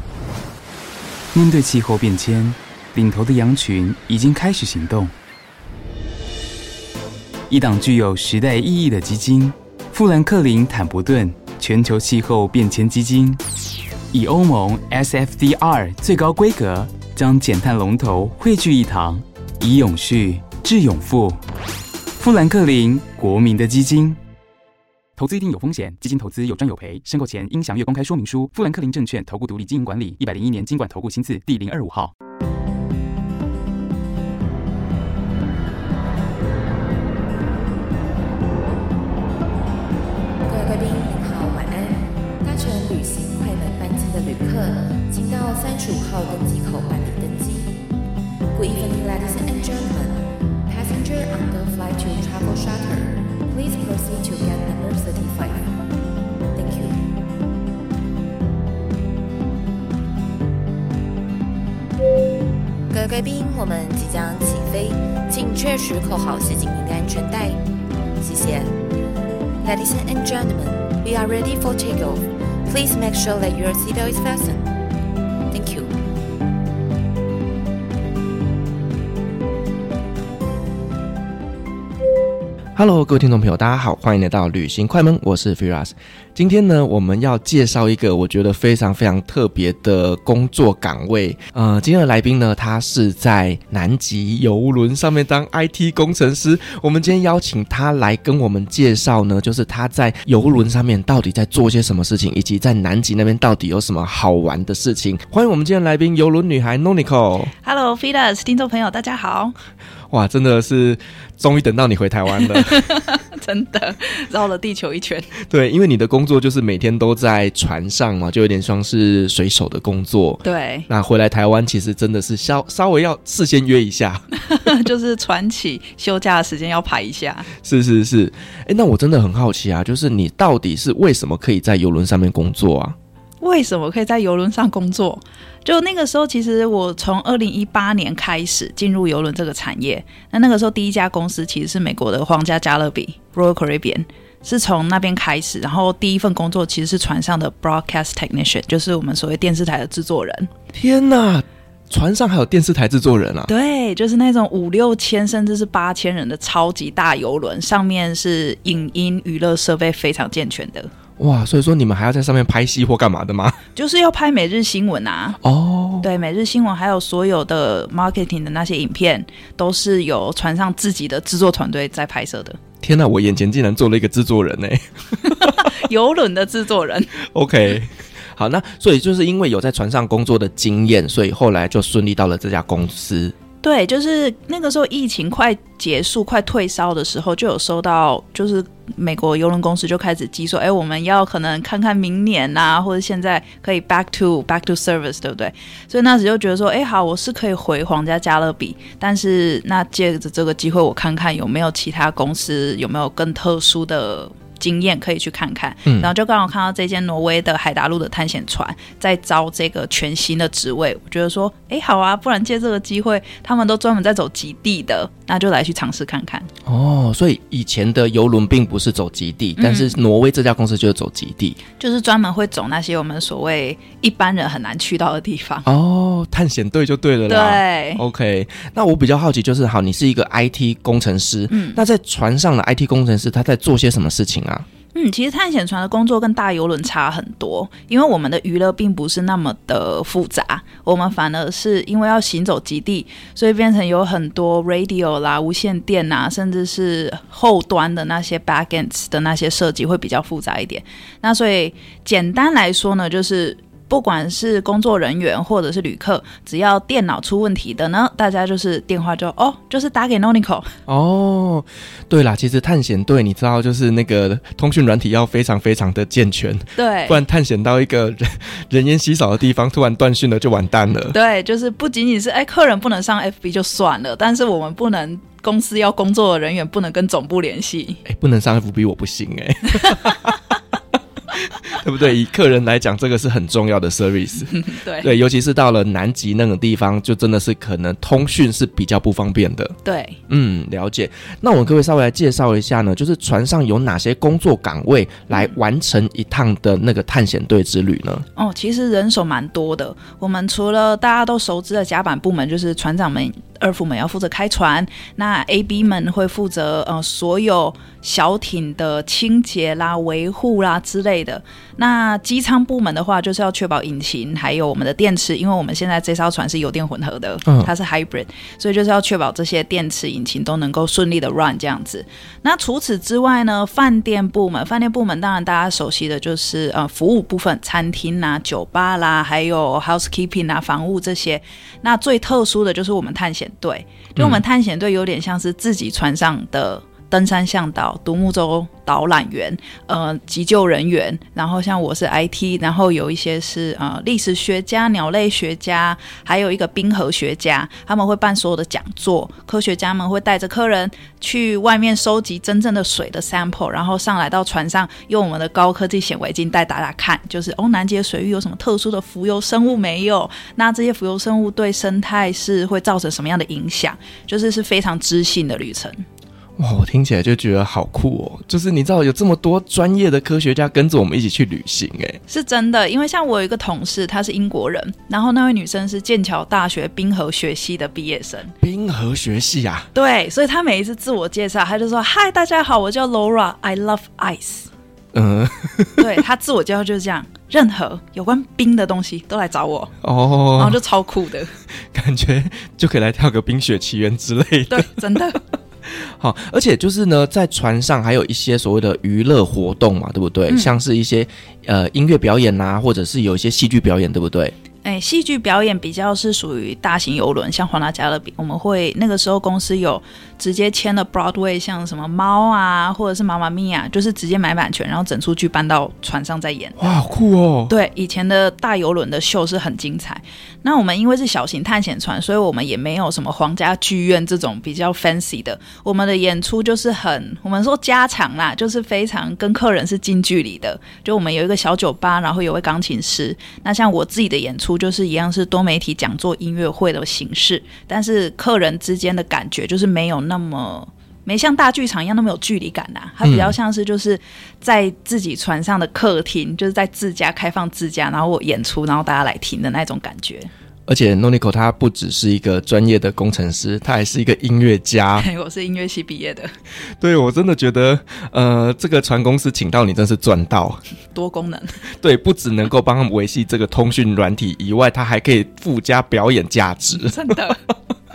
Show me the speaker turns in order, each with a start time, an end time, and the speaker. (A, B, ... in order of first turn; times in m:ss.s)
0:01.3-0:05.1 A
0:07.5-0:13.4 A
0:14.1-0:21.4 A
0:22.2-0:24.2 A
0:25.2-0:32.1 A
0:40.5-0:47.8 B
0:48.5-0:55.7 B
0:56.5-0:57.0 B
1:02.9-1:07.6 B
1:08.2-1:08.7 B
1:09.6-1:14.7 B
1:15.5-1:15.9 B
1:22.8-1:47.5 C
1:47.6-1:49.5 D
1:50.1-1:52.9 C
1:52.4-1:55.3 D
1:55.4-2:04.2 C
2:00.4-2:00.9 D
2:04.4-2:07.5 D
2:07.6-2:13.0 C
2:13.4-2:30.5 D
2:30.7-2:33.5 C
2:33.5-2:40.9 D
2:41.2-2:43.6 C
2:43.7-2:45.4 D
2:45.4-2:46.0 C
2:46.0-2:52.6 D
2:52.8-2:55.7 C
2:55.2-2:57.1 D
2:57.2-3:03.3 C
3:03.6-3:36.5 D
3:25.8-3:26.1 C
3:36.6-3:41.6 C
3:39.6-3:39.9 D
3:41.8-3:45.7 D
3:45.6-3:54.6 C
3:47.3-3:48.0 D
3:51.5-3:51.8 D
3:54.9-4:20.7 D
4:20.9-4:31.2 C
4:26.8-4:27.2 D
4:31.1-4:38.0 D
4:38.0-4:40.6 C
4:41.3-4:49.8 C
4:44.5-4:45.1 D
4:49.8-4:50.2 D
4:50.3-4:58.2 C
4:58.4-6:06.0 D
5:17.4-5:17.7 C
5:34.2-5:34.4 C
6:06.6-6:12.2 C
6:12.3-6:18.5 D
6:18.6-6:19.9 C
6:19.9-6:24.7 D
6:25.1-6:26.2 C
6:26.0-6:29.9 D
6:30.0-6:30.8 C
6:30.5-6:31.5 D
6:31.8-6:35.2 C
6:34.7-6:35.4 D
6:35.8-6:44.5 C
6:40.5-6:40.7 D
6:44.8-6:56.9 D
6:56.8-6:57.7 C
6:57.7-7:30.5 D
7:23.2-7:23.6 C
7:30.9-7:35.3 C
7:35.2-7:36.5 D
7:37.0-7:40.8 C
7:41.1-7:41.8 D
7:42.0-7:47.5 C
7:46.9-7:47.6 D